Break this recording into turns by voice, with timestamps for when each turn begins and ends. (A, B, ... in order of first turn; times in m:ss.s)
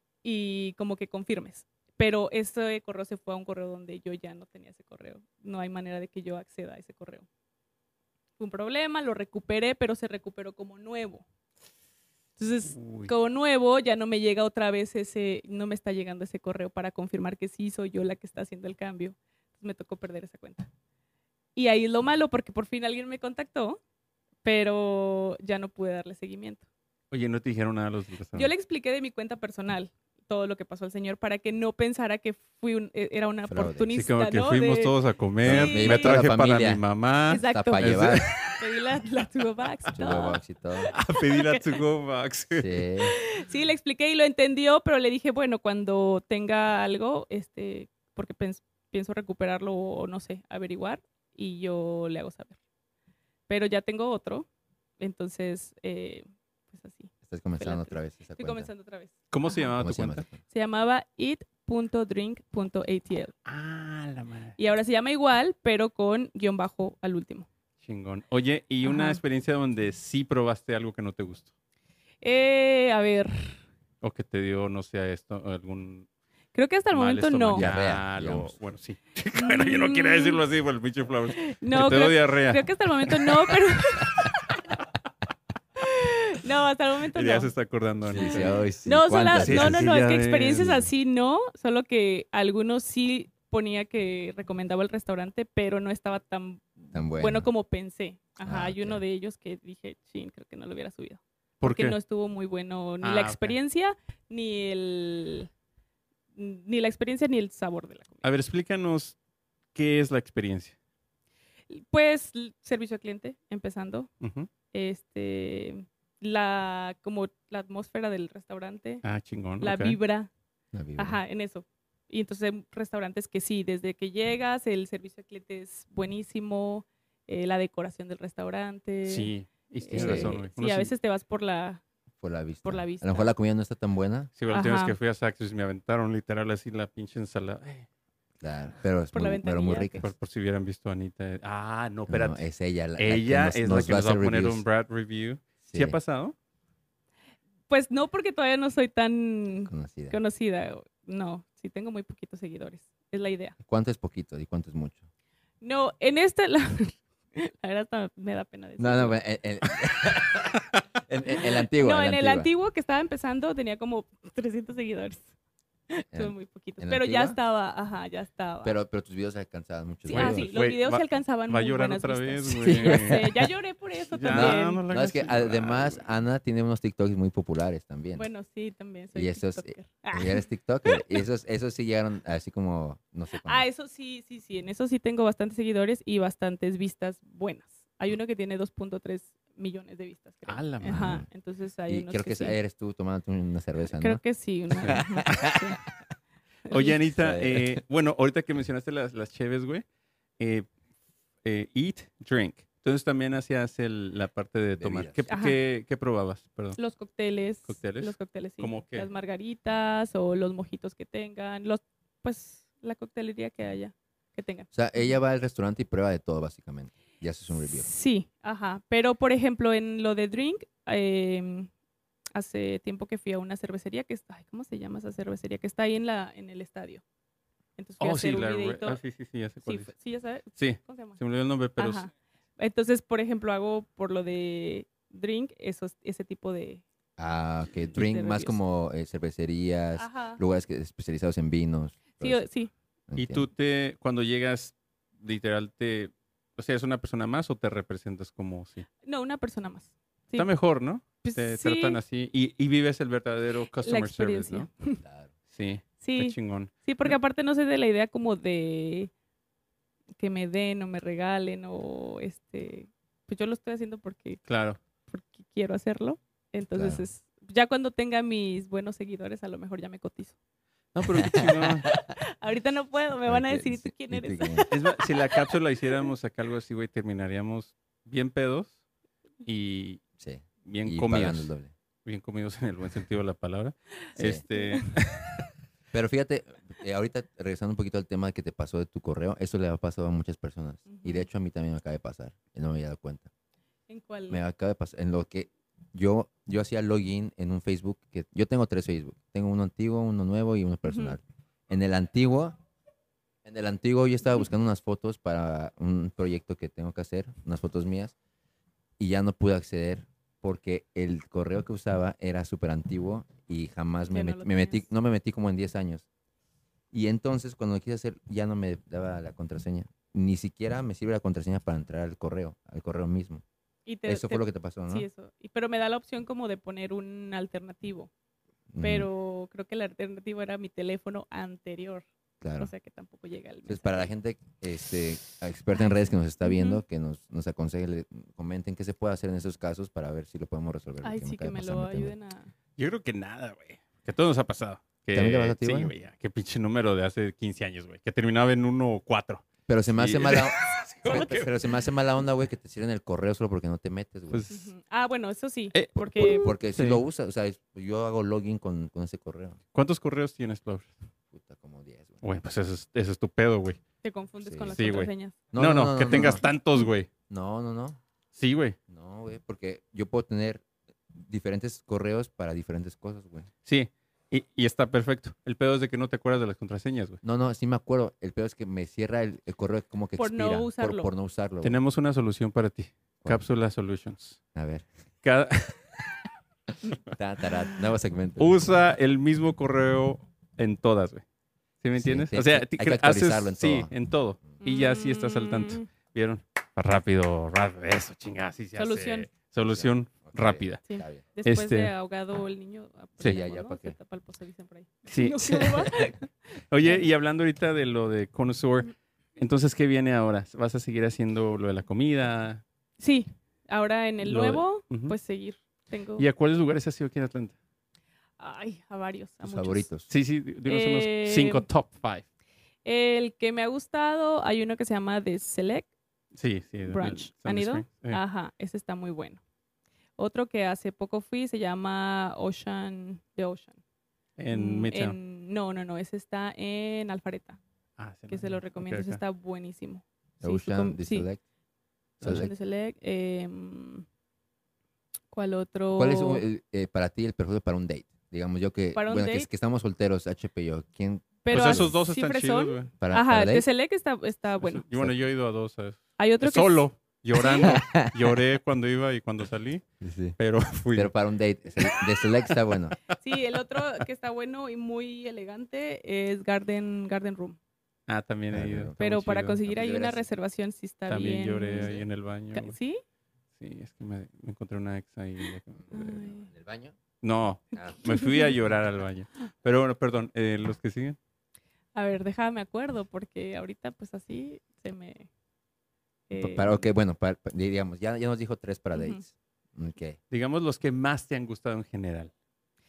0:00.2-0:07.2 A
0:08.4-0:11.2 A
0:12.4-0:20.7 A
0:12.7-0:13.1 B
0:21.6-0:23.8 A
0:24.4-0:26.6 A
0:27.1-0:28.5 B
0:28.3-0:34.9 A
0:33.5-0:33.9 C
0:33.9-0:38.4 B
0:35.4-0:36.8 C
0:35.4-0:36.2 A
0:37.3-0:41.7 A
0:37.5-0:38.3 C
0:39.9-0:40.9 C
0:40.9-0:42.8 B
0:42.5-0:43.1 C
0:43.0-0:52.6 A
0:53.5-0:54.5 A
0:55.0-0:59.7 A
0:57.2-0:58.7 C
0:59.3-1:00.2 B
0:59.8-1:00.4 C
1:00.4-1:03.3 A
1:03.4-1:04.6 B
1:04.6-1:07.4 A
1:07.8-1:11.5 B
1:08.8-1:09.2 A
1:12.2-1:13.6 A
1:14.0-1:16.1 B
1:16.5-1:17.7 A
1:16.9-1:24.7 B
1:17.5-1:18.5 C
1:19.3-1:20.4 A
1:21.4-1:24.2 A
1:25.8-1:27.5 A
1:27.1-1:28.5 B
1:28.0-1:29.9 C
1:28.2-1:36.6 A
1:29.4-1:30.6 B
1:30.5-1:30.9 C
1:36.9-1:37.5 C
1:37.2-1:45.5 A
1:38.4-1:39.0 C
1:41.6-1:42.0 B
1:43.0-1:43.6 B
1:46.4-1:48.2 A
1:48.2-1:49.2 B
1:49.7-1:50.8 B
1:51.7-1:54.1 A
1:54.2-1:54.5 B
1:54.7-1:59.0 A
1:59.0-2:00.0 B
1:59.6-2:00.3 A
2:00.7-2:01.2 C
2:01.0-2:11.8 A
2:09.0-2:10.9 B
2:09.9-2:10.4 C
2:12.2-2:14.3 C
2:12.6-2:13.3 A
2:14.4-2:17.8 B
2:14.5-2:15.0 A
2:18.4-2:20.1 C
2:19.1-2:20.0 A
2:20.0-2:22.4 B
2:22.1-2:24.6 C
2:23.0-2:26.3 B
2:25.6-2:26.0 C
2:27.7-2:33.6 A
2:29.7-2:30.2 C
2:33.6-2:35.0 C
2:35.6-2:39.2 A
2:38.8-2:42.5 C
2:41.4-2:45.3 A
2:45.9-2:48.8 A
2:46.1-2:47.4 C
2:48.6-2:50.5 C
2:50.1-2:54.8 A
2:50.1-2:53.4 B
2:52.6-2:53.5 C
2:54.2-2:56.0 B
2:54.3-2:58.3 C
2:58.1-3:01.2 A
2:59.1-3:03.7 C
3:03.4-3:12.6 A
3:10.4-3:11.2 B
3:10.8-3:11.3 C
3:11.9-3:14.2 C
3:13.9-3:15.8 A
3:14.8-3:15.6 C
3:16.7-3:17.0 A
3:16.7-3:19.8 B
3:17.1-3:17.8 C
3:20.4-3:20.7 B
3:21.4-3:26.8 B
3:24.8-3:25.2 C
3:25.3-3:25.6 A
3:26.8-3:35.1 A
3:27.6-3:29.1 B
3:34.7-3:37.9 C
3:37.7-3:41.7 A
3:42.3-3:47.0 A
3:47.8-3:49.0 A
3:48.0-3:49.9 B
3:49.6-3:51.2 A
3:50.6-3:52.1 B
3:51.8-3:56.8 A
3:57.2-4:02.4 C
3:57.9-3:58.6 A
4:00.0-4:00.4 A
4:02.2-4:02.7 A
4:03.1-4:03.5 C
4:03.2-4:08.9 B
4:09.0-4:10.5 A
4:10.4-4:14.7 B
4:11.2-4:12.0 A
4:13.8-4:15.0 A
4:15.0-4:15.3 C
4:15.5-4:17.1 B
4:16.0-4:19.1 A
4:20.2-4:24.4 A
4:24.5-4:24.8 B
4:25.1-4:30.3 A
4:26.7-4:27.0 C
4:30.9-4:31.9 B
4:31.1-4:32.0 C
4:31.8-4:35.5 A
4:33.2-4:34.7 C
4:34.7-4:38.8 B
4:39.4-4:40.0 B
4:40.2-4:41.7 C
4:40.6-4:41.5 B
4:42.0-4:45.4 B
4:44.2-4:44.4 C
4:44.5-4:44.9 A
4:45.9-4:53.3 C
4:50.9-4:51.3 A
4:53.9-4:54.4 A
4:54.3-5:02.6 C
5:00.8-5:01.2 A
5:03.4-5:08.1 C
5:09.0-5:16.0 C
5:14.1-5:14.8 A
5:16.9-5:23.4 C
5:23.8-5:28.1 A
5:24.0-5:25.1 C
5:28.7-5:29.1 C
5:28.8-5:32.0 A
5:32.4-5:32.7 C
5:32.6-5:34.1 A
5:33.6-5:42.1 C
5:36.4-5:36.8 A
5:41.0-5:42.5 A
5:42.8-5:51.6 B
5:45.1-5:45.9 C
5:49.7-5:54.5 C
5:54.3-5:54.7 B
5:54.5-5:56.5 A
5:55.7-5:57.0 B
5:56.2-5:59.6 C
5:59.7-6:00.9 B
6:01.3-6:02.2 C
6:02.2-6:03.8 B
6:04.0-6:05.4 A
6:04.4-6:05.0 C
6:04.7-6:07.1 B
6:05.5-6:06.4 C
6:07.3-6:08.0 C
6:08.3-6:08.8 B
6:08.9-6:13.5 C
6:13.6-6:17.2 B
6:17.2-6:21.8 C
6:20.2-6:21.1 A
6:21.6-6:24.4 B
6:24.5-6:24.9 C
6:25.2-6:26.0 B
6:27.1-6:28.6 C
6:28.4-6:31.2 B
6:31.8-6:40.8 B
6:32.0-6:33.9 C
6:34.6-6:35.9 A
6:38.8-6:39.3 A
6:39.6-6:41.2 C
6:40.8-6:46.2 A
6:41.4-6:41.9 B
6:43.2-6:44.0 C
6:45.1-6:46.2 B
6:46.7-6:52.6 B
6:53.0-6:56.2 A
6:54.2-6:55.2 B
6:56.2-6:57.5 B
6:58.4-6:59.9 A
6:59.4-7:00.1 C
7:00.1-7:02.2 B
7:00.7-7:01.6 A
7:02.8-7:05.9 A
7:06.3-7:08.2 B
7:06.8-7:09.4 A
7:10.2-7:13.8 A
7:14.4-7:15.2 B
7:14.5-7:17.6 A
7:18.0-7:19.2 B
7:18.3-7:21.3 A
7:20.4-7:21.4 C
7:22.2-7:22.5 B
7:22.2-7:22.5 C
7:22.2-7:24.0 A
7:25.3-7:26.4 A
7:26.0-7:31.9 C
7:28.9-7:29.5 A
7:31.4-7:34.8 A
7:31.5-7:32.9 B
7:33.0-7:33.6 C
7:34.6-7:39.8 B
7:36.2-7:37.8 A
7:37.6-7:38.1 C
7:40.0-7:40.4 C
7:40.4-7:41.1 B
7:40.9-7:43.0 C
7:43.2-7:47.6 A
7:48.1-7:49.6 B
7:48.5-7:48.9 C
7:49.0-7:51.9 A
7:49.6-7:50.2 C
7:51.1-7:52.8 B
7:51.8-7:52.1 C
7:52.5-7:53.0 A
7:53.6-7:55.8 B
7:55.8-7:57.0 C
7:55.9-7:56.5 A
7:57.2-8:01.2 B
7:57.8-7:58.0 C
7:58.0-7:58.5 A
8:01.9-8:05.3 A
8:06.3-8:06.9 A
8:06.4-8:10.2 C
8:08.9-8:09.2 A
8:10.3-8:12.3 B